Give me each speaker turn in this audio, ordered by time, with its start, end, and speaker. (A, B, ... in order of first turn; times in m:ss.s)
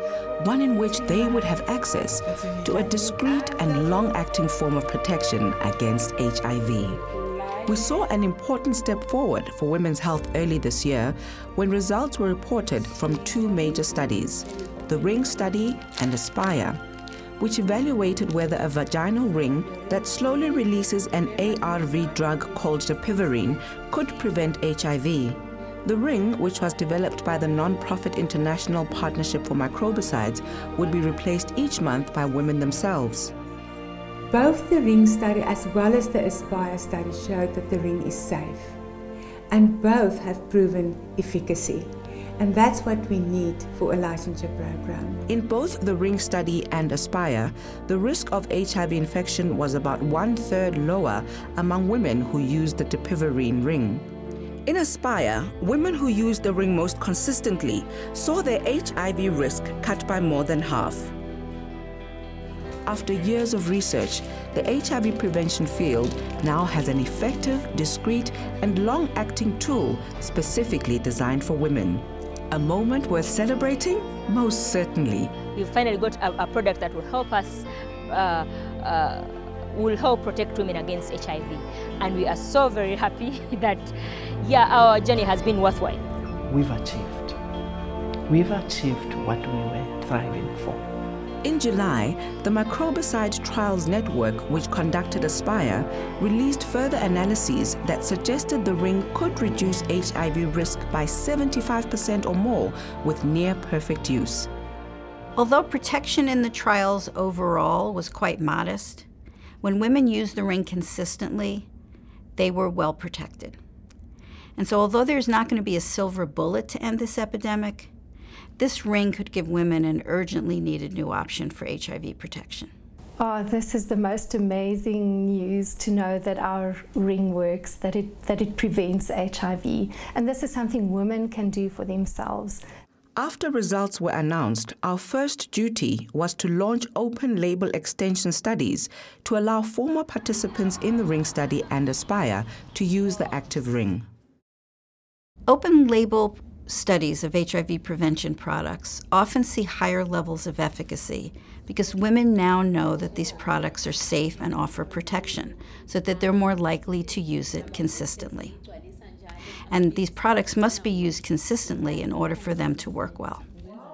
0:00.4-0:07.0 A
0:07.6-0:16.8 A
0:17.4-0:33.3 A
0:19.7-0:22.7 B
0:34.3-0:38.8 B
0:39.5-0:45.2 B
0:45.3-0:54.0 A
0:54.6-1:01.1 A
1:02.8-1:15.3 A
1:15.5-1:26.0 C
1:26.5-1:27.4 D
1:28.3-1:30.9 D
1:31.4-1:44.5 A
1:45.4-1:49.0 E
1:49.6-1:51.7 E
1:52.4-1:53.6 E
1:54.6-1:57.9 E
1:58.6-2:02.7 E
2:03.2-2:12.6 F
2:13.2-2:24.0 A
2:25.5-2:38.6 E
2:39.7-2:43.4 E